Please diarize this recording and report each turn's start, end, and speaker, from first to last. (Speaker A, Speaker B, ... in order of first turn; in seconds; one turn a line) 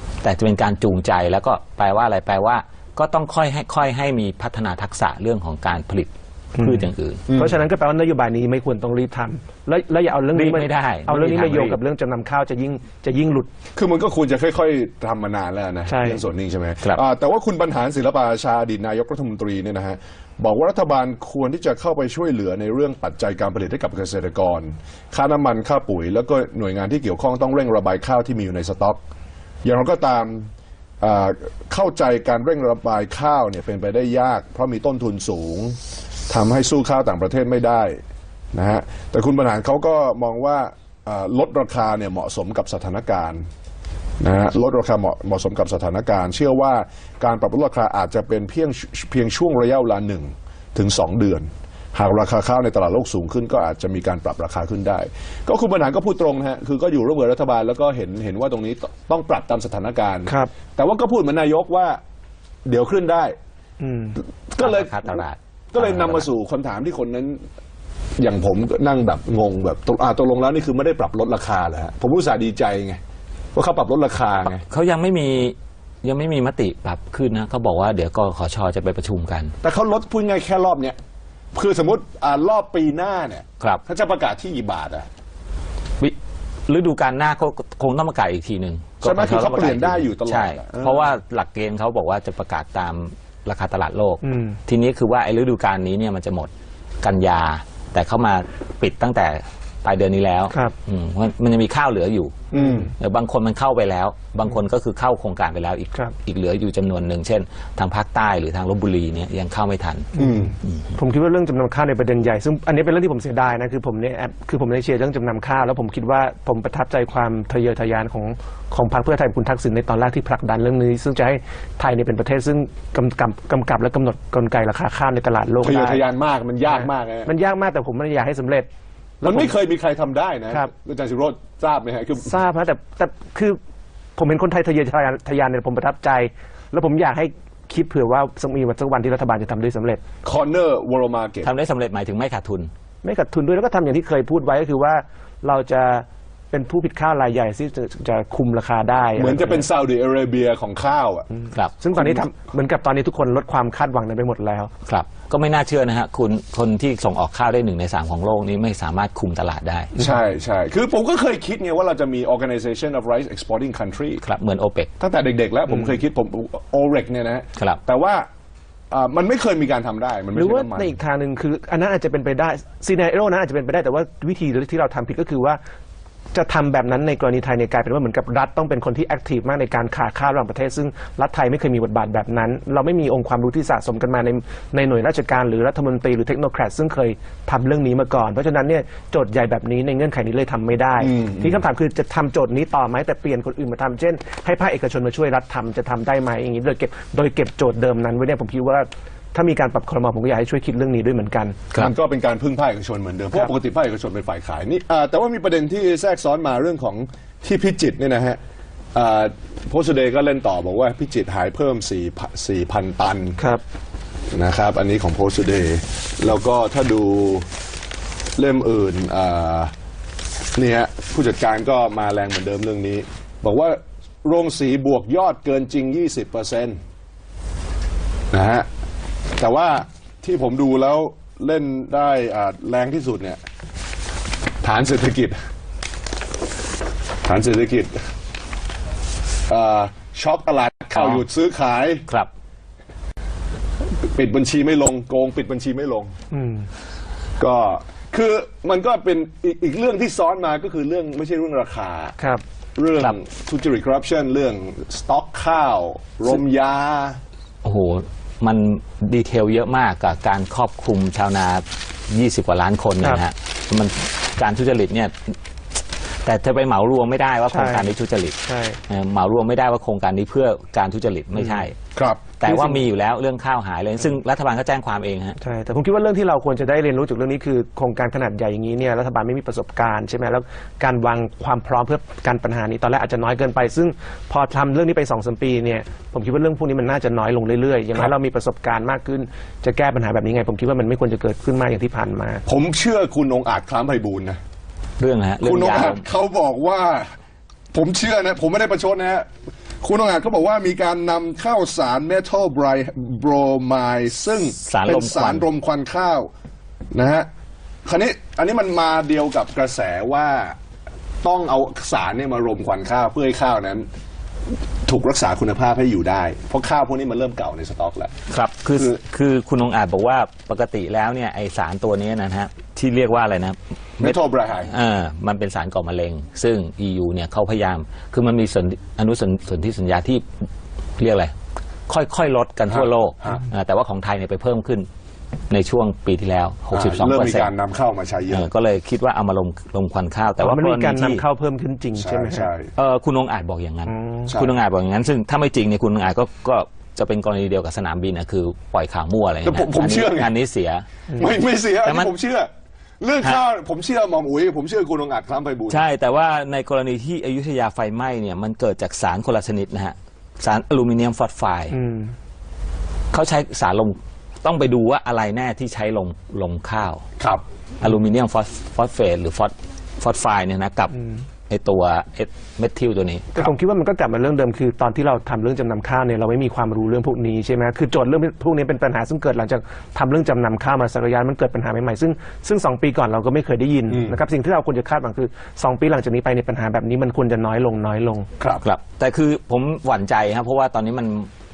Speaker A: 0.2-7.2
Speaker B: 6.6-13.5
Speaker C: 7.3-7.6
Speaker A: 10.3-11.8
Speaker C: 13.7-29.0
Speaker B: 15.9-16.2
Speaker C: 29.6-30.5
Speaker C: 31.0-35.8
Speaker C: 36.3-38.0
Speaker C: 38.5-43.4
Speaker C: 44.2-62.0
Speaker B: 60.3-60.5
Speaker C: 62.6-63.3
Speaker B: 63.8-64.2
Speaker C: 64.5-67.4
Speaker A: 64.6-66.2
Speaker C: 68.2-73.0
Speaker C: 73.5-74.6
Speaker A: 74.5-79.5
Speaker C: 79.6-81.0
Speaker C: 81.5-85.1
Speaker A: 86.7-96.5
Speaker C: 89.0-91.1
Speaker B: 94.2-94.6
Speaker A: 97.0-110.1
Speaker B: 102.5-102.9
Speaker C: 102.5-102.9
Speaker B: 110.1-126.0
Speaker C: 110.2-110.5
Speaker A: 110.6-110.9
Speaker C: 125.6-127.3
Speaker B: 126.7-128.7
Speaker B: 129.2-129.5
Speaker C: 129.2-132.3
Speaker B: 132.2-133.6
Speaker B: 134.2-140.0
Speaker C: 140.2-141.5
Speaker A: 141.4-142.7
Speaker B: 143.0-149.7
Speaker C: 149.2-151.3
Speaker B: 151.8-154.7
Speaker C: 151.9-152.2
Speaker A: 154.8-159.9
Speaker C: 159.9-164.2
Speaker A: 164.2-164.9
Speaker C: 165.0-168.2
Speaker C: 168.9-170.9
Speaker B: 170.3-175.6
Speaker B: 176.3-201.6
Speaker C: 191.0-191.6
Speaker C: 201.7-208.4
Speaker C: 208.9-213.4
Speaker B: 213.4-213.6
Speaker C: 214.3-217.4
Speaker C: 218.4-219.7
Speaker C: 220.6-226.8
Speaker C: 228.3-228.7
Speaker C: 229.4-233.4
Speaker C: 234.6-235.4
Speaker C: 237.2-238.0
Speaker C: 239.5-242.1
Speaker A: 240.9-241.2
Speaker C: 244.1-246.1
Speaker B: 246.3-246.7
Speaker C: 247.4-252.2
Speaker C: 252.8-257.2
Speaker A: 257.6-265.4
Speaker A: 266.2-271.8
Speaker B: 267.5-268.8
Speaker B: 271.4-271.6
Speaker C: 271.9-272.2
Speaker A: 272.4-275.4
Speaker B: 272.4-272.8
Speaker B: 275.4-292.4
Speaker C: 292.4-294.4
Speaker A: 295.0-296.0
Speaker C: 295.4-297.1
Speaker C: 297.7-299.3
Speaker C: 299.8-306.3
Speaker A: 304.6-305.4
Speaker C: 306.9-307.3
Speaker C: 307.9-310.6
Speaker C: 311.2-313.9
Speaker C: 314.8-318.1
Speaker A: 318.3-330.2
Speaker C: 318.7-319.0
Speaker C: 324.0-324.7
Speaker A: 331.0-331.3
Speaker A: 331.9-334.9
Speaker C: 332.7-333.4
Speaker A: 335.5-337.5
Speaker C: 336.7-338.5
Speaker A: 338.3-341.2
Speaker B: 340.4-342.5
Speaker C: 341.9-342.7
Speaker A: 342.8-350.9
Speaker B: 343.9-344.3
Speaker C: 344.3-344.6
Speaker C: 349.4-350.3
Speaker C: 351.2-352.5
Speaker A: 351.8-352.1
Speaker C: 353.0-355.9
Speaker A: 355.7-361.8
Speaker B: 361.7-362.1
Speaker A: 363.1-367.0
Speaker A: 367.8-370.9
Speaker A: 371.5-373.3
Speaker B: 373.3-388.3
Speaker C: 383.9-384.2
Speaker A: 388.6-391.3